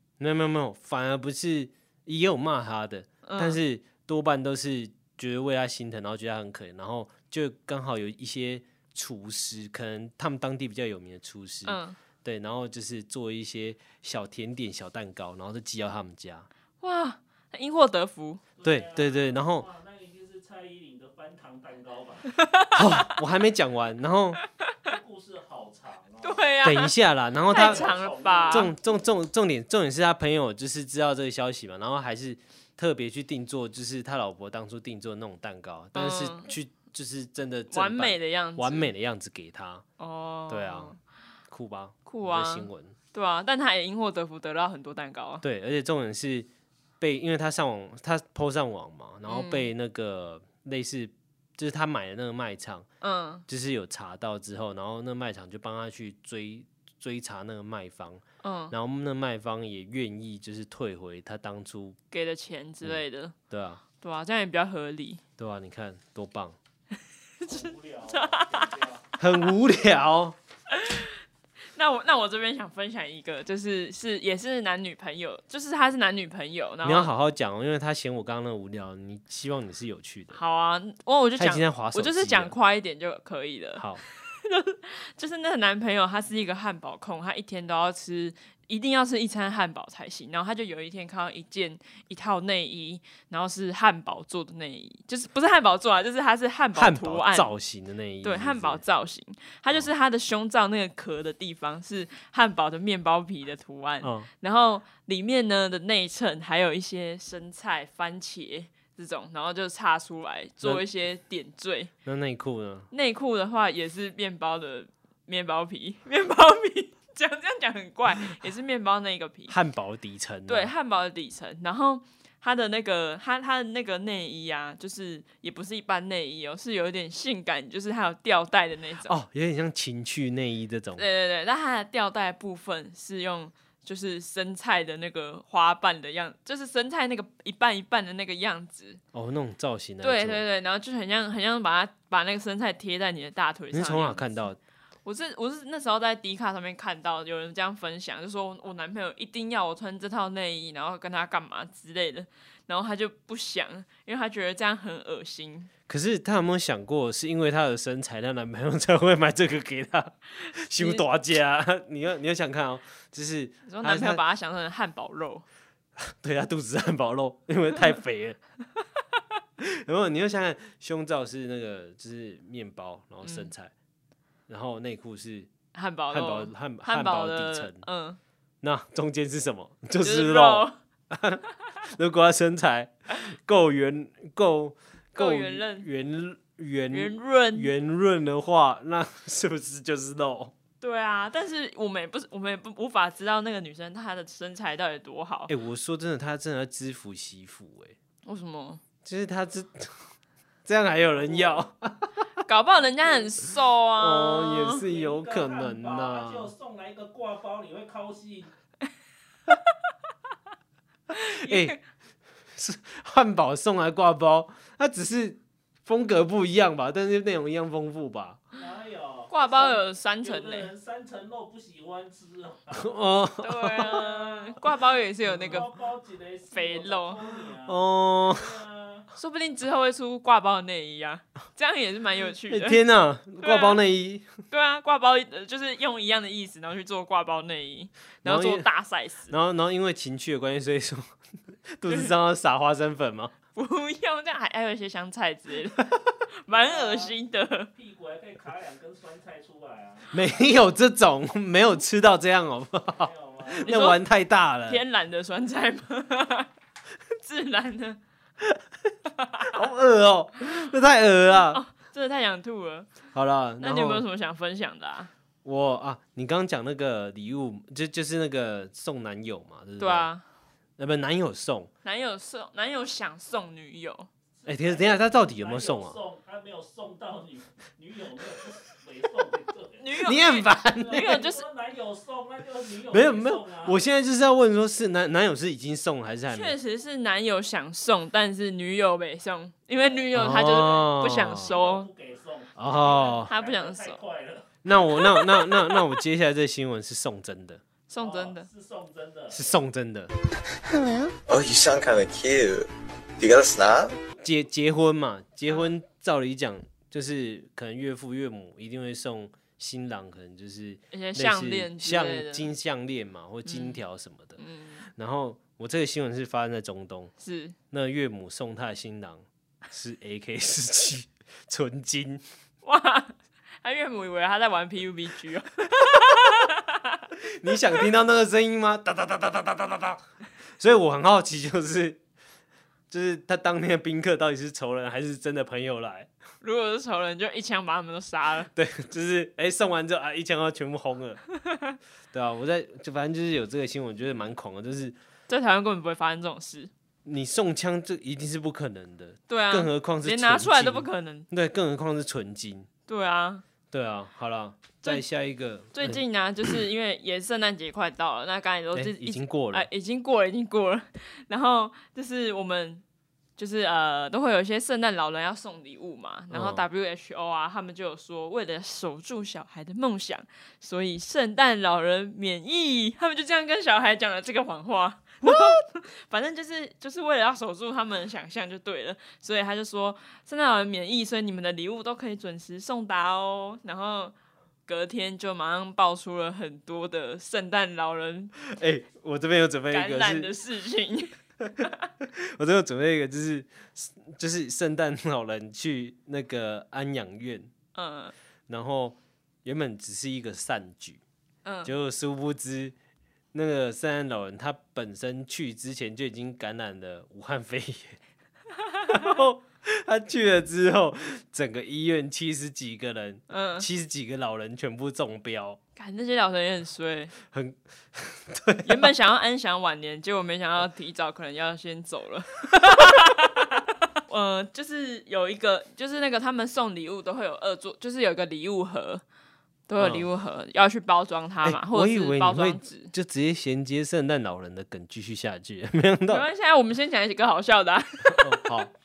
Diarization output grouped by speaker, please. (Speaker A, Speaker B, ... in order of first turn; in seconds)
Speaker A: 0.2-16.5, 18.6-19.7, 22.8-24.4, 26.6-27.9, 28.5-39.9, 40.5-41.0, 41.5-43.0, 45.4-46.5, 47.0-52.9, 53.5-62.0, 63.5-63.8, 65.4-66.6, 69.2-70.4, 76.8-80.4, 81.4-82.5, 83.8-84.0, 96.8-98.8, 104.0-104.3, 112.0-112.9, 119.5-120.7, 129.1-131.0, 139.1-140.4, 143.7-144.6, 155.9-164.2, 166.0-168.4, 169.6-173.7, 174.5-175.5, 176.1-177.8, 178.6-190.5, 195.5-198.0, 199.0-200.1, 200.7-202.1, 204.0-206.5, 211.3-211.8, 212.6-218.4, 222.7-224.0, 227.7-228.6, 232.5-234.3, 238.2-238.7, 239.3-241.1, 241.7-243.3, 250.1-254.8, 259.5-261.6, 263.1-264.0, 265.4-270.1, 270.8-271.7, 274.5-276.0, 280.0-281.3, 282.9-286.6, 290.1-291.5, 292.6-293.3, 294.6-297.6, 299.3-300.1, 304.2-314.4, 315.0-317.1, 317.7-322.2, 327.2-330.0, 330.6-332.0, 332.9-336.1, 338.5-341.2, 342.1-345.0, 347.1-352.7, 353.7-356.0, 358.7-359.7, 366.3-366.6, 375.3-375.5, 388.4-390.3, 392.0-397.5, 398.5-401.0, 401.6-402.7, 403.3-408.0, 408.9-415.6, 417.2-418.9, 429.8-430.1, 431.4-436.3, 438.1-438.7
Speaker B: 3.2-3.6, 11.7-12.0, 16.8-18.4, 22.4-22.8, 26.2-26.9, 27.5-28.7, 36.0-36.5, 37.7-38.9, 40.0-41.0, 42.1-45.4, 49.3-49.7, 53.0-53.5, 58.4-58.8, 62.1-63.4, 64.0-65.2, 67.4-68.7, 70.7-71.2, 71.7-77.1, 80.3-97.5, 98.2-111.9, 112.9-119.5, 120.5-129.1, 131.0-139.0, 140.0-144.3, 145.1-155.7, 160.7-161.0, 163.7-165.4, 173.2-173.5, 175.7-178.2, 180.0-180.8, 185.2-185.9, 186.9-187.7, 190.8-195.5, 198.2-198.8, 202.4-204.8, 211.1-211.8, 219.3-220.7, 223.4-225.7, 226.5-227.2, 229.1-232.8, 233.4-233.8, 234.5-239.3, 243.5-245.8, 246.4-247.7, 253.6-254.0, 254.7-256.5, 257.2-258.0, 259.2-259.5, 261.4-262.9, 263.6-265.1, 269.8-270.2, 271.8-274.1, 279.8-281.4, 286.3-291.9, 293.3-294.0, 297.9-298.5, 310.9-312.5, 313.5-313.8, 314.4-314.9, 317.2-317.6, 322.6-327.0, 336.4-338.5, 345.3-346.7, 349.3-351.3, 352.9-353.4, 355.7-362.8, 363.4-384.1, 384.7-388.3, 389.7-391.7, 397.8-398.1, 401.4-401.7, 408.7-409.0, 413.3-413.7, 415.8-417.1, 418.6-429.0, 429.7-432.9, 436.1-438.5
Speaker C: 18.6-22.4, 24.9-26.4, 27.5-28.7, 67.5-69.1, 201.1-201.6, 204.7-208.5, 218.5-223.0, 223.9-224.6, 225.3-229.1, 246.5-247.2, 247.7-250.2, 252.9-253.7, 274.4-283.8, 289.8-290.7, 291.4-294.6, 298.0-299.4
Speaker D: 300.6-302.7, 303.2-304.0